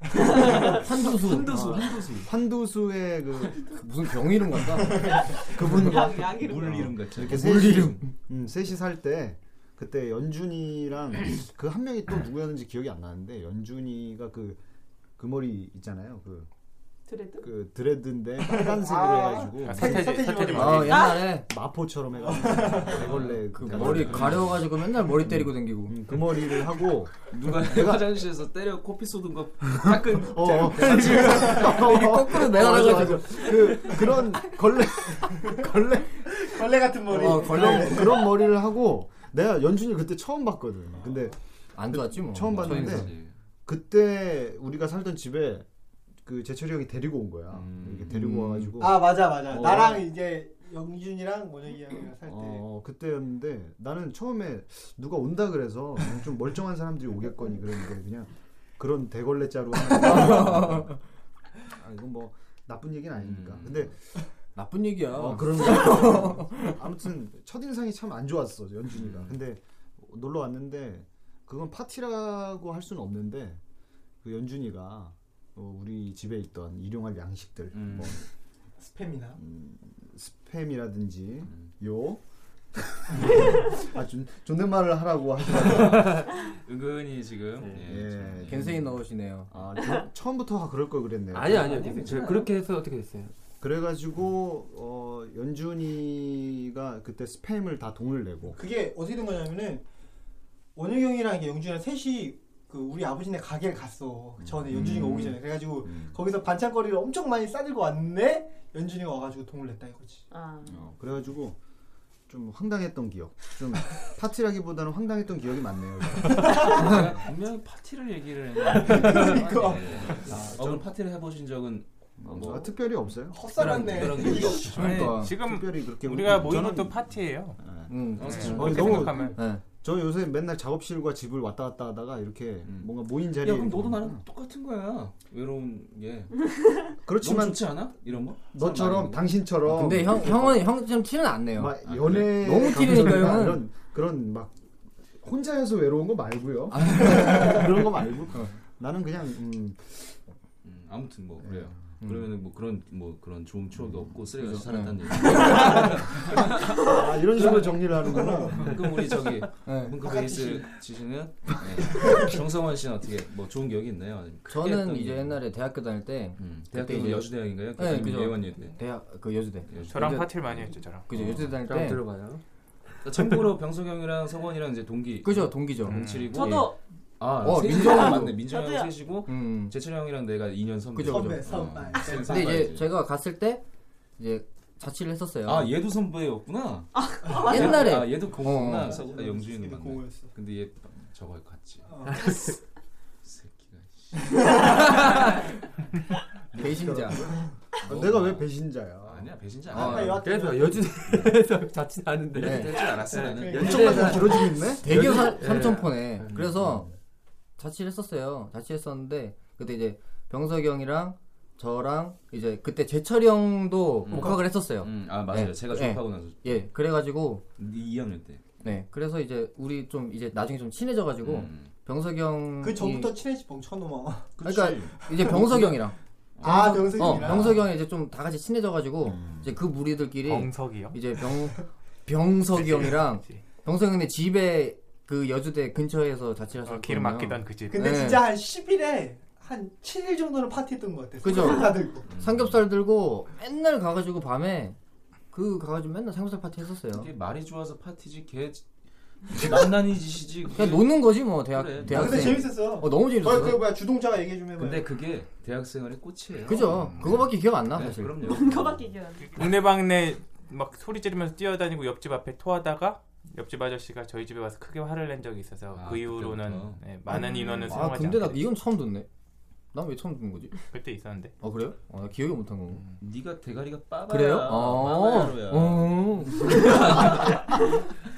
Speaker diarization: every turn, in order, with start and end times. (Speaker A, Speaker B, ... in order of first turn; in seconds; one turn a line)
Speaker A: 0.2-2.3
Speaker B: 0.4-2.0
Speaker C: 2.2-3.7
Speaker B: 3.7-5.7
Speaker A: 5.4-8.1
Speaker C: 5.4-6.5
Speaker D: 5.7-6.9
Speaker C: 7.1-14.6
Speaker B: 7.2-8.1
Speaker C: 15.2-16.5
Speaker D: 17.1-17.5
Speaker C: 17.4-20.2
Speaker E: 18.4-21.1
Speaker F: 19.5-21.1
Speaker B: 20.5-21.5
Speaker D: 20.9-21.4
Speaker C: 21.3-24.5
Speaker E: 22.2-23.1
Speaker A: 22.8-24.8
Speaker B: 23.5-26.0
Speaker C: 25.1-28.2
Speaker A: 27.3-31.8
Speaker C: 29.8-36.5
Speaker B: 30.8-34.0
Speaker E: 30.9-31.7
Speaker E: 35.2-38.3
Speaker C: 37.1-41.4
Speaker B: 37.2-37.9
Speaker B: 41.8-43.2
Speaker C: 41.9-43.1
Speaker A: 42.5-43.3
Speaker C: 43.7-45.7
Speaker C: 46.2-50.1
Speaker A: 47.5-48.7
Speaker E: 48.8-52.7
Speaker C: 52.3-61.0
Speaker B: 60.1-60.8
Speaker C: 61.7-64.0
Speaker A: 63.2-63.9
Speaker B: 64.5-66.8
Speaker C: 65.1-73.6
Speaker A: 68.9-69.4
Speaker C: 74.2-78.2
Speaker A: 77.7-78.2
Speaker E: 78.8-79.4
Speaker C: 79.3-82.2
Speaker A: 81.5-81.7
Speaker C: 82.8-86.3
Speaker A: 85.6-88.9
Speaker C: 87.8-88.8
Speaker B: 88.5-89.5
Speaker C: 89.5-92.0
Speaker G: 91.3-93.3
Speaker A: 91.8-92.4
Speaker C: 93.6-98.6
Speaker E: 98.5-99.9
Speaker E: 100.8-110.3
Speaker C: 104.4-106.2
Speaker D: 110.3-110.8
Speaker C: 110.6-111.6
Speaker C: 112.3-117.0
Speaker E: 116.3-117.1
Speaker A: 116.4-122.9
Speaker E: 118.6-120.5
Speaker C: 120.1-120.8
Speaker C: 122.2-124.5
Speaker E: 123.3-124.9
Speaker A: 123.5-125.2
Speaker B: 124.5-125.4
Speaker F: 124.8-127.6
Speaker C: 125.1-134.2
Speaker B: 127.9-129.6
Speaker A: 128.2-129.3
Speaker F: 128.2-129.4
Speaker A: 132.6-136.5
Speaker C: 137.0-137.9
Speaker A: 137.2-139.4
Speaker C: 138.5-140.7
Speaker B: 139.6-143.7
Speaker C: 141.5-144.6
Speaker A: 141.8-142.4
Speaker C: 145.2-150.2
Speaker B: 146.7-147.7
Speaker A: 150.6-165.4
Speaker C: 151.4-151.8
Speaker B: 152.0-152.3
Speaker C: 153.8-154.2
Speaker B: 154.4-155.8
Speaker C: 156.8-158.8
Speaker E: 158.4-158.7
Speaker B: 159.6-160.0
Speaker E: 160.0-160.8
Speaker E: 161.9-162.3
Speaker B: 164.5-172.0
Speaker A: 166.4-168.8
Speaker A: 169.7-171.6
Speaker F: 169.9-171.1
Speaker G: 171.6-172.4
Speaker A: 173.0-182.9
Speaker B: 175.2-176.7
Speaker F: 175.8-176.4
Speaker D: 176.3-176.8
Speaker B: 177.3-178.5
Speaker D: 177.8-178.9
Speaker B: 179.2-179.7
Speaker B: 180.9-183.6
Speaker E: 181.1-182.6
Speaker B: 184.2-185.8
Speaker A: 185.4-191.9
Speaker D: 186.9-188.0
Speaker E: 187.3-187.6
Speaker B: 187.3-189.0
Speaker E: 188.6-190.3
Speaker E: 191.9-192.3
Speaker G: 192.1-192.6
Speaker A: 193.2-195.0
Speaker B: 196.5-197.3
Speaker C: 196.6-199.3
Speaker A: 197.8-198.5
Speaker A: 199.0-200.2
Speaker B: 199.7-200.2
Speaker E: 199.7-201.0
Speaker G: 199.9-206.0
Speaker A: 201.1-201.4
Speaker A: 202.3-206.7
Speaker B: 202.4-202.9
Speaker E: 203.1-204.4
Speaker C: 203.5-204.9
Speaker B: 204.8-206.9
Speaker C: 206.4-206.9
Speaker B: 207.6-217.4
Speaker A: 214.0-216.7
Speaker E: 214.1-214.4
Speaker A: 217.6-218.6
Speaker B: 218.6-223.2
Speaker A: 221.2-221.7
Speaker E: 222.6-224.4
Speaker A: 224.4-225.5
Speaker B: 224.4-238.4
Speaker E: 224.9-225.7
Speaker A: 226.4-227.5
Speaker E: 226.4-227.7
Speaker C: 229.0-229.5
Speaker F: 230.2-231.0
Speaker F: 232.5-233.4
Speaker F: 236.6-237.9
Speaker E: 237.7-242.1
Speaker B: 241.2-244.8
Speaker A: 242.1-242.6
Speaker B: 245.3-247.1
Speaker A: 246.9-248.7
Speaker A: 249.2-252.5
Speaker B: 250.5-253.8
Speaker E: 251.9-254.9
Speaker A: 254.6-258.9
Speaker B: 256.4-258.3
Speaker D: 258.2-259.6
Speaker F: 259.2-268.5
Speaker A: 265.7-266.8
Speaker B: 267.1-269.1
Speaker B: 269.7-270.6
Speaker F: 270.7-271.3
Speaker B: 271.4-273.0
Speaker A: 272.7-277.4
Speaker B: 274.1-277.4